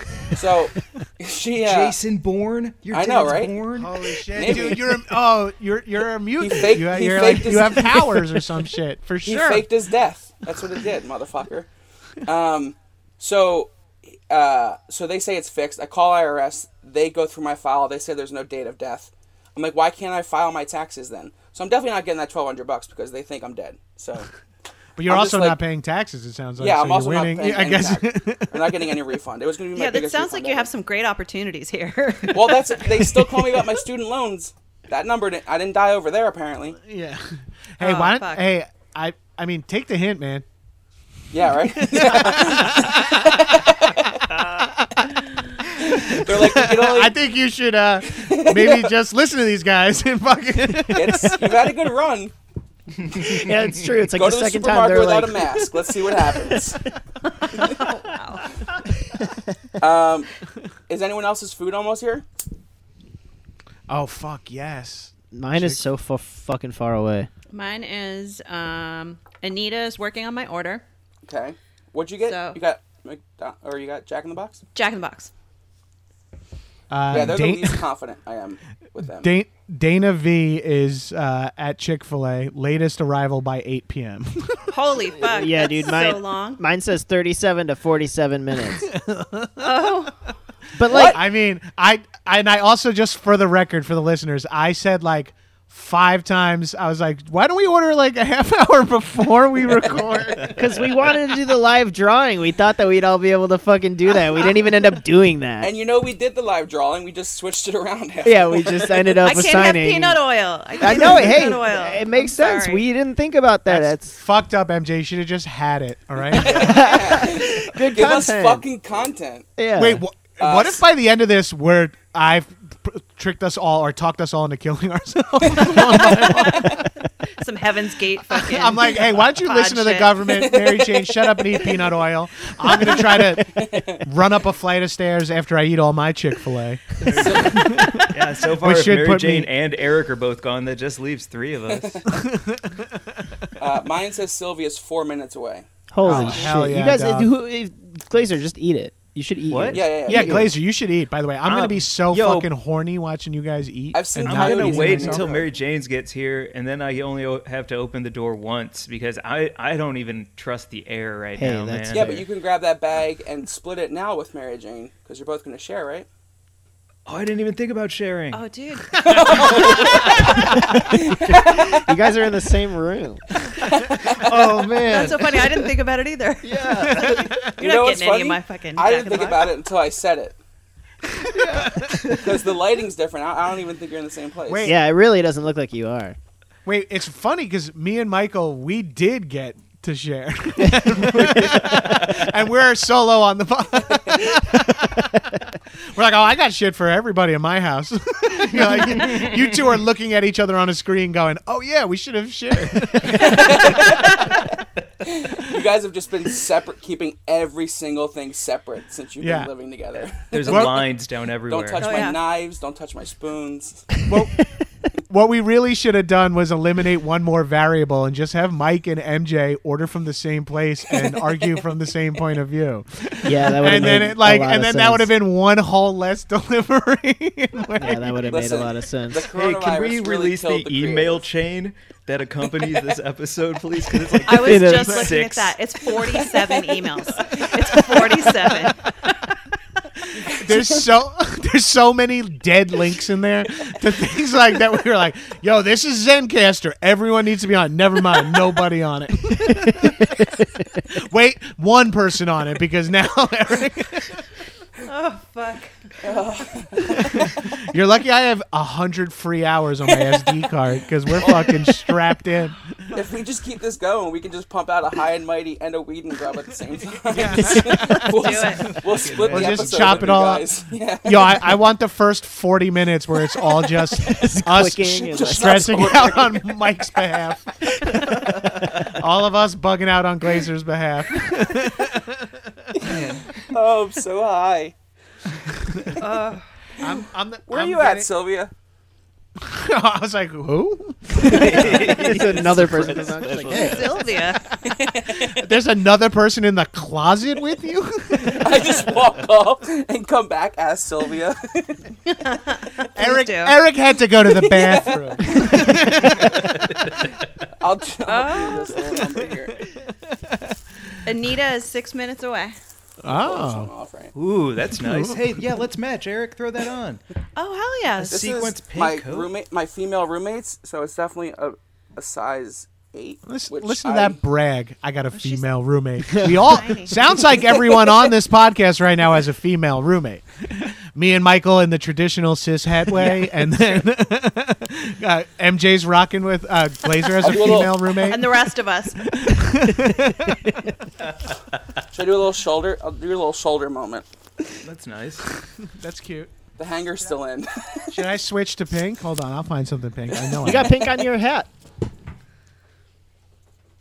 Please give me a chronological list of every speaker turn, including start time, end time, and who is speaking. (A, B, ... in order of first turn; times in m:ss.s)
0:00.3-0:02.0 A
0:01.6-0:04.7 B
0:02.9-0:03.5 A
0:03.7-0:09.7 C
0:04.3-0:04.9 A
0:06.4-0:08.2 A
0:09.2-0:11.7 A
0:12.2-0:24.3 A
0:25.0-0:28.8 C
0:25.0-0:25.6 A
0:26.6-0:30.7 A
0:29.7-0:32.9 D
0:32.3-0:36.8 A
0:36.8-0:40.4 C
0:37.8-0:38.5 D
0:41.3-0:44.2 A
0:41.8-0:43.7 C
0:44.4-0:45.2 C
0:45.7-0:51.6 C
0:45.8-0:47.1 A
0:48.1-0:48.9 A
0:50.9-0:52.3 A
0:53.0-0:53.7 B
0:53.2-0:56.8 E
0:54.1-0:56.8 A
0:57.3-0:58.5 D
0:59.8-1:00.3 A
1:00.9-1:02.2 A
1:03.9-1:05.9 C
1:05.3-1:07.3 E
1:07.5-1:10.8 D
1:11.2-1:14.6 A
1:12.2-1:12.6 D
1:14.7-1:15.3 D
1:16.9-1:17.8 C
1:17.1-1:19.3 A
1:19.2-1:24.7 C
1:24.7-1:26.6 D
1:25.2-1:28.9 E
1:28.9-1:29.8 C
1:29.6-1:30.2 D
1:30.8-1:31.2 E
1:30.9-1:31.2 A
1:30.9-1:40.6 C
1:40.3-1:45.7 E
1:40.4-1:41.0 B
1:45.6-1:49.2 A
1:48.2-1:50.2 E
1:49.2-1:52.8 D
1:50.8-1:54.2 E
1:53.6-1:56.8 C
1:56.3-1:59.5 A
1:56.3-1:58.6 E
1:59.6-2:00.0 E
1:59.8-2:06.9 C
2:00.4-2:00.8 A
2:05.6-2:10.5 D
2:08.2-2:19.5 C
2:10.4-2:10.9 A
2:12.8-2:14.0 A
2:17.0-2:22.0 B
2:17.1-2:17.8 A
2:21.7-2:22.0 A
2:22.1-2:22.9 C
2:23.6-2:25.7 A
2:25.9-2:30.5 E
2:26.0-2:27.3 C
2:29.5-2:29.8 B
2:29.7-2:30.5 A
2:30.1-2:35.3 C
2:31.4-2:32.5 B
2:33.9-2:35.5 A
2:34.2-2:42.2 B
2:41.4-2:42.2 E
2:41.9-2:46.1 A
2:47.0-2:48.4 B
2:48.3-2:50.5 D
2:49.0-2:51.9 A
2:49.5-2:50.3 B
2:50.2-2:50.7 C
2:50.4-2:53.2 E
2:53.6-2:54.4 A
2:54.2-2:55.0 C
2:54.2-2:55.4 B
2:54.4-2:55.3 E
2:54.8-2:59.5 D
2:56.4-2:57.2 E
2:56.8-2:57.5 C
2:57.2-3:00.4 A
3:01.2-3:02.1 C
3:01.8-3:02.2 B
3:02.1-3:04.7 A
3:04.5-3:04.8 C
3:04.6-3:06.2 E
3:06.6-3:15.2 C
3:10.6-3:12.0 E
3:15.9-3:23.9 C
3:18.7-3:19.4 B
3:23.1-3:24.4 A
3:23.3-3:24.1 D
3:25.0-3:30.8 A
3:29.2-3:29.5 C
3:30.3-3:32.1 B
3:30.5-3:30.8 C
3:31.5-3:34.0 A
3:31.8-3:32.2 D
3:34.1-3:34.4 C
3:35.1-3:48.4 C
3:43.2-3:45.1 E
3:47.8-3:49.3 E
3:48.3-3:51.2 A
3:49.3-3:55.6 B
3:54.2-3:59.3 D
3:54.4-3:55.1 E
4:00.1-4:14.2 C
4:00.2-4:00.7 A
4:09.7-4:10.2 E
4:14.8-4:16.1 D
4:16.0-4:17.3 A
4:17.4-4:22.6 C
4:21.2-4:21.7 A
4:22.9-4:31.5 A
4:27.1-4:28.1 C
4:27.4-4:27.9 E
4:28.0-4:28.8 D
4:28.6-4:30.2 B
4:29.3-4:30.5 C
4:31.0-4:42.7 C
4:33.9-4:35.9 E
4:35.1-4:36.5 A
4:38.3-4:38.9 B
4:42.7-4:44.7 A
4:42.8-4:43.5 B
4:46.0-4:46.4 D
4:46.8-4:48.1 C
4:47.5-4:48.5 A
4:49.4-4:51.9 C
4:51.1-4:53.9 E
4:51.1-4:54.1 B
4:53.5-4:54.5 D
4:54.5-4:58.8 C
4:54.6-4:55.4 A
4:58.2-5:01.9 A
5:02.0-5:03.6 D
5:03.0-5:07.0 C
5:04.4-5:05.7 A
5:06.0-5:07.2 B
5:07.6-5:09.6 A
5:08.0-5:08.8 D
5:09.7-5:10.9 C
5:11.0-5:12.6 D
5:13.0-5:13.7 C
5:13.1-5:14.1 A
5:14.1-5:17.0 B
5:14.8-5:15.2 C
5:17.4-5:18.2 D
5:18.0-5:19.3 B
5:18.0-5:24.2 A
5:23.2-5:38.4 C
5:25.1-5:25.4 D
5:26.3-5:27.4 D
5:37.2-5:37.8 A
5:37.3-5:39.1 D
5:39.0-5:40.5 C
5:39.7-5:40.7 E
5:41.0-5:41.8 B
5:41.9-5:44.0 A
5:44.6-5:45.3 B
5:45.7-5:46.3 C
5:46.6-5:48.0 A
5:47.9-5:50.7 C
5:50.4-5:51.5 E